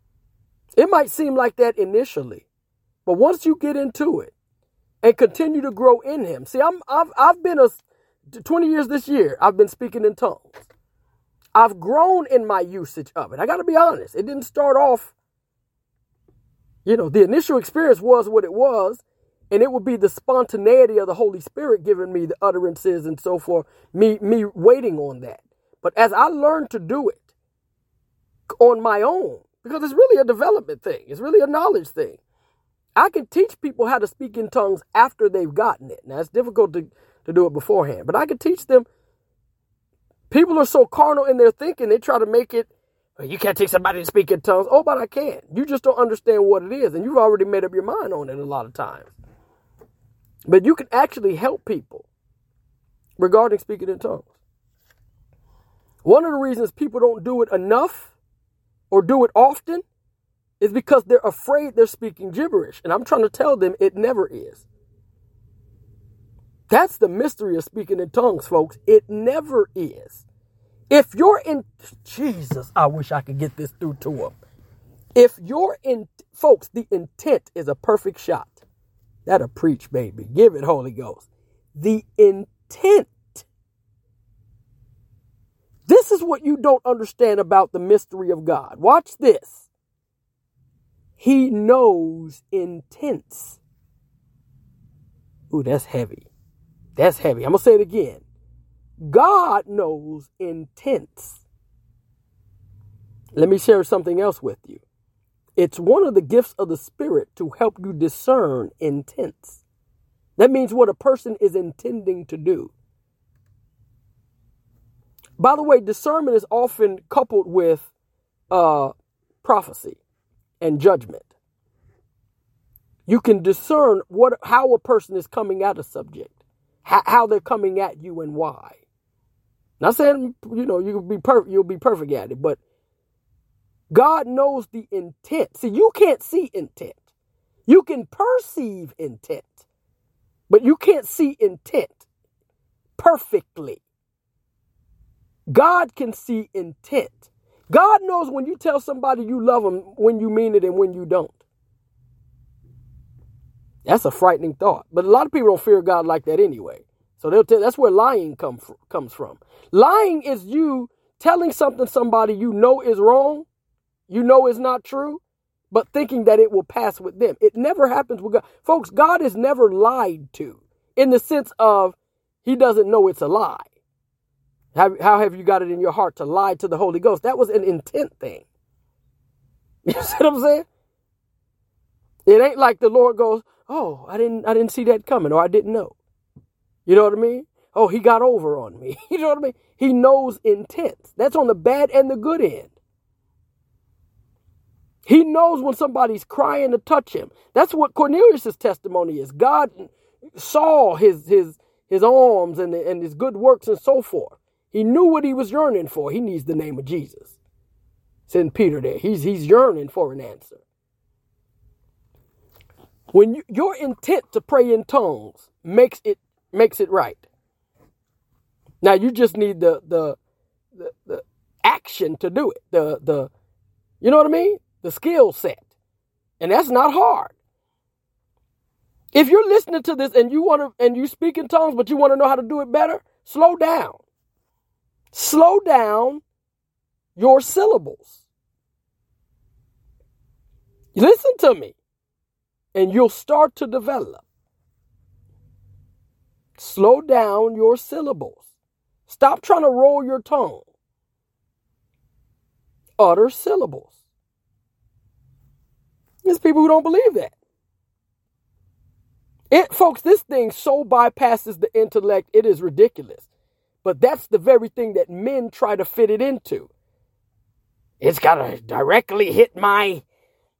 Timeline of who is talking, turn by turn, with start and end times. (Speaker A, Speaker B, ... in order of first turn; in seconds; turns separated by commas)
Speaker A: 0.7-2.4, Speaker A: 3.0-4.3, Speaker A: 5.0-10.6, Speaker A: 11.5-15.1, Speaker A: 16.8-27.2, Speaker A: 28.6-32.2, Speaker A: 33.0-38.9, Speaker A: 40.3-49.1, Speaker A: 50.5-52.0, Speaker A: 53.2-54.3, Speaker A: 56.0-58.1, Speaker A: 58.9-59.8, Speaker A: 60.6-64.6, Speaker A: 66.7-70.2, Speaker A: 70.9-74.3, Speaker A: 75.1-78.6, Speaker A: 79.2-83.5, Speaker A: 85.9-89.7, Speaker A: 91.2-93.6, Speaker A: 95.5-96.2, Speaker A: 97.0-98.2, Speaker A: 99.0-101.4, Speaker A: 103.3-104.8, Speaker A: 105.6-109.6, Speaker A: 110.4-112.7, Speaker A: 115.4-117.9, Speaker A: 118.5-120.0, Speaker A: 120.6-121.3, Speaker A: 123.1-128.8, Speaker A: 129.8-132.6, Speaker A: 133.9-137.0, Speaker A: 137.7-139.6, Speaker A: 140.5-142.0, Speaker A: 143.0-143.8, Speaker A: 145.5-151.4, Speaker A: 153.8-163.5, Speaker A: 164.1-173.6, Speaker A: 174.7-178.4, Speaker A: 179.8-180.7, Speaker A: 182.2-185.9, Speaker A: 186.8-192.7, Speaker A: 195.1-207.3, Speaker A: 208.3-210.6, Speaker A: 213.1-217.2, Speaker A: 218.8-220.2, Speaker A: 220.8-223.3, Speaker A: 224.0-225.6, Speaker A: 226.4-227.3, Speaker A: 229.1-234.0, Speaker A: 235.1-236.2, Speaker A: 237.2-238.1, Speaker A: 240.9-241.7, Speaker A: 242.7-244.2, Speaker A: 246.6-248.4, Speaker A: 249.1-250.6, Speaker A: 253.0-253.9, Speaker A: 256.2-257.3, Speaker A: 259.5-263.2, Speaker A: 263.8-266.7, Speaker A: 268.0-270.0